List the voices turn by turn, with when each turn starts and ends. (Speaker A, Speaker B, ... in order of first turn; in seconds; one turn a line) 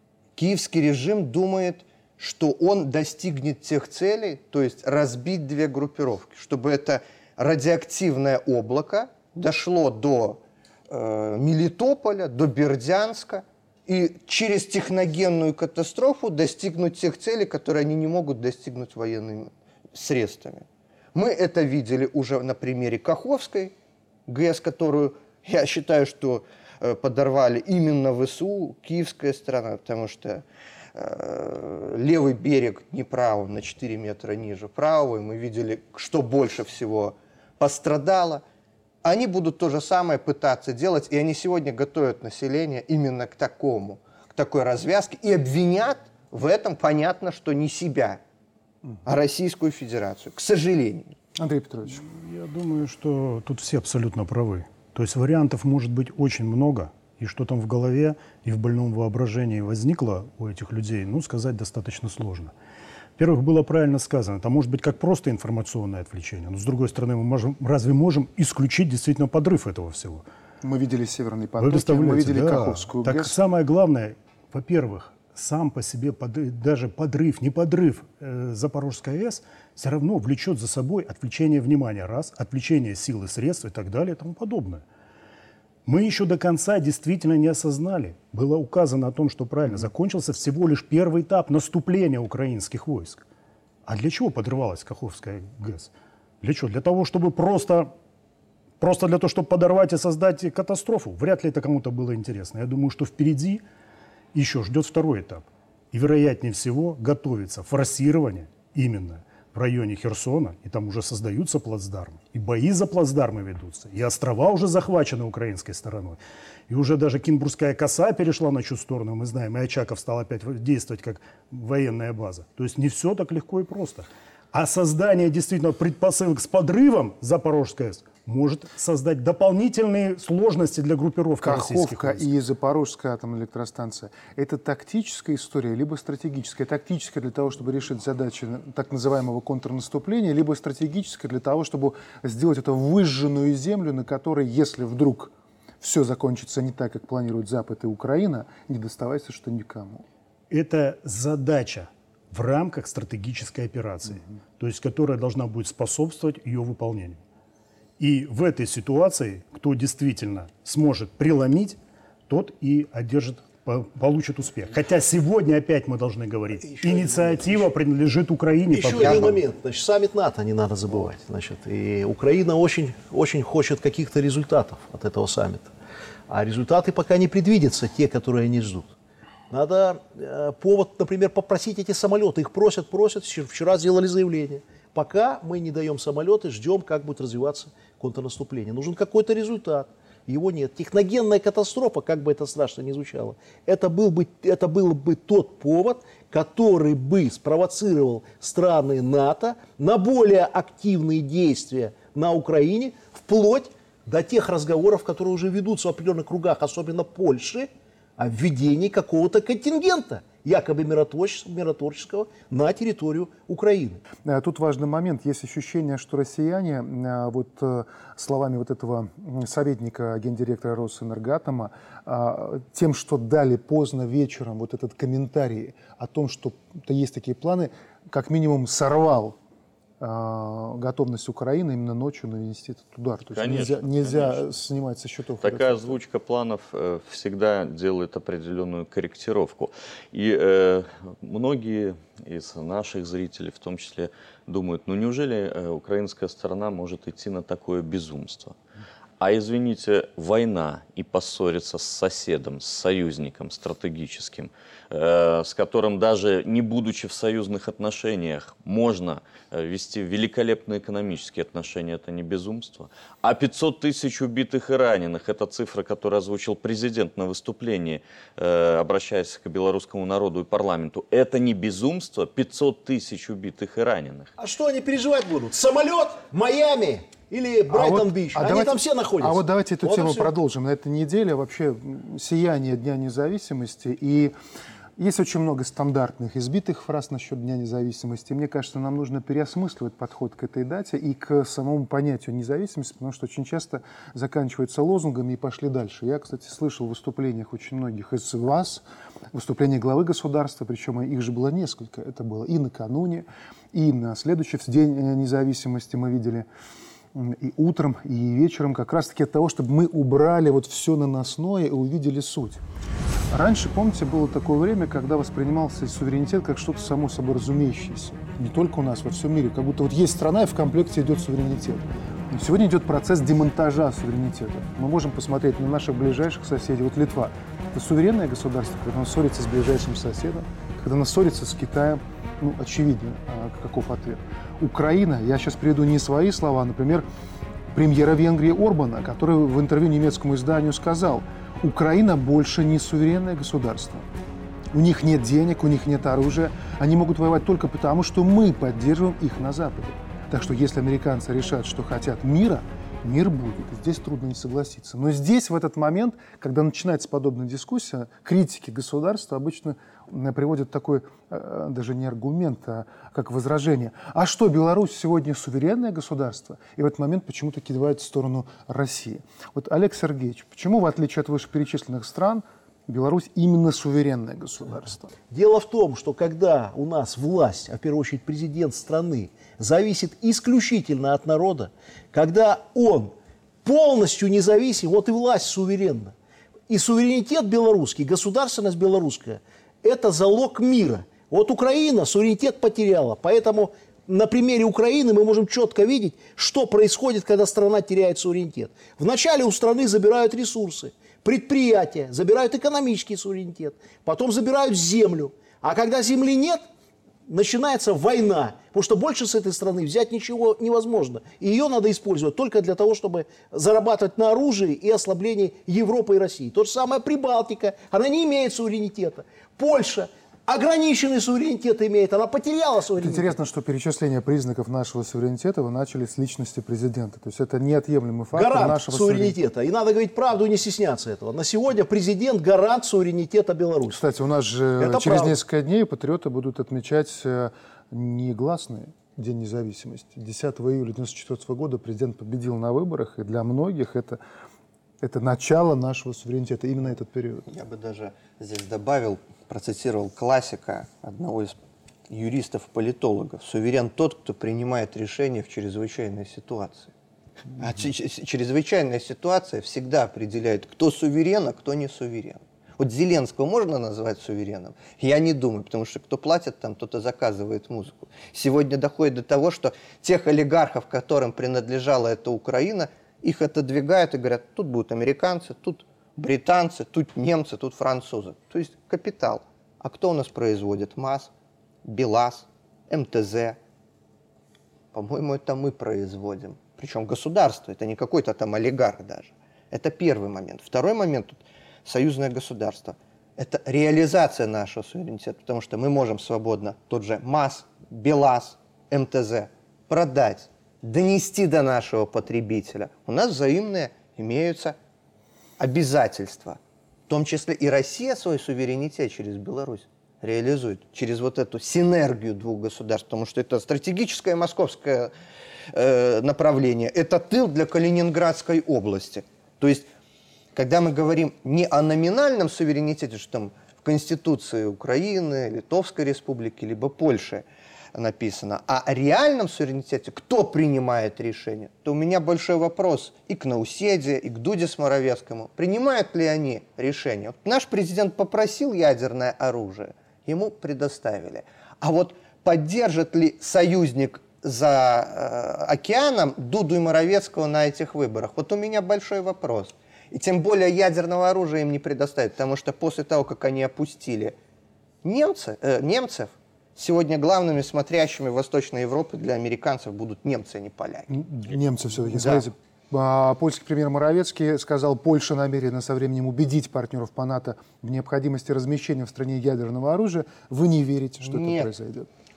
Speaker A: 0.4-23.7
Speaker A: 24.3-30.4
Speaker A: 30.9-38.4
Speaker A: 39.0-48.2
Speaker A: 49.0-51.1
Speaker B: 51.4-52.0
Speaker C: 51.9-62.5
Speaker C: 63.2-70.2
Speaker B: 70.6-73.3
Speaker C: 71.6-84.8
Speaker C: 85.9-93.2
Speaker C: 93.9-97.9
Speaker C: 98.8-103.6
Speaker C: 104.3-132.3
Speaker B: 131.4-150.0
Speaker C: 150.5-157.2
Speaker C: 158.0-161.8
Speaker C: 162.3-169.4
Speaker D: 166.7-167.7
Speaker D: 168.7-175.7
Speaker A: 169.0-169.3
Speaker D: 176.3-179.0
Speaker D: 179.5-214.0
Speaker B: 214.2-229.4
Speaker B: 230.0-236.0
Speaker E: 233.3-234.5
Speaker E: 235.4-248.6
Speaker E: 249.2-274.3
Speaker D: 274.4-280.4
Speaker B: 277.7-284.3
Speaker B: 285.0-306.5
Speaker B: 307.1-312.6
Speaker B: 313.3-337.1
Speaker B: 337.7-344.1
Speaker B: 344.7-375.1
Speaker D: 375.3-386.1
Speaker D: 386.7-406.6
Speaker D: 407.3-423.4
Speaker B: 423.0-429.4
Speaker D: 428.3-434.0
Speaker B: 433.9-444.2
Speaker D: 434.8-435.4
Speaker B: 445.0-447.5
Speaker A: 447.5-451.6
Speaker A: 452.1-456.9
Speaker A: 457.6-481.3
Speaker A: 481.9-483.6
Speaker A: 484.9-504.8
Speaker A: 505.6-506.6
Speaker A: 507.1-515.1
Speaker A: 515.7-519.9
Speaker A: 520.5-554.4
Speaker A: 555.0-561.1
Speaker B: 561.1-572.1
Speaker A: 562.1-562.5
Speaker A: 571.2-571.7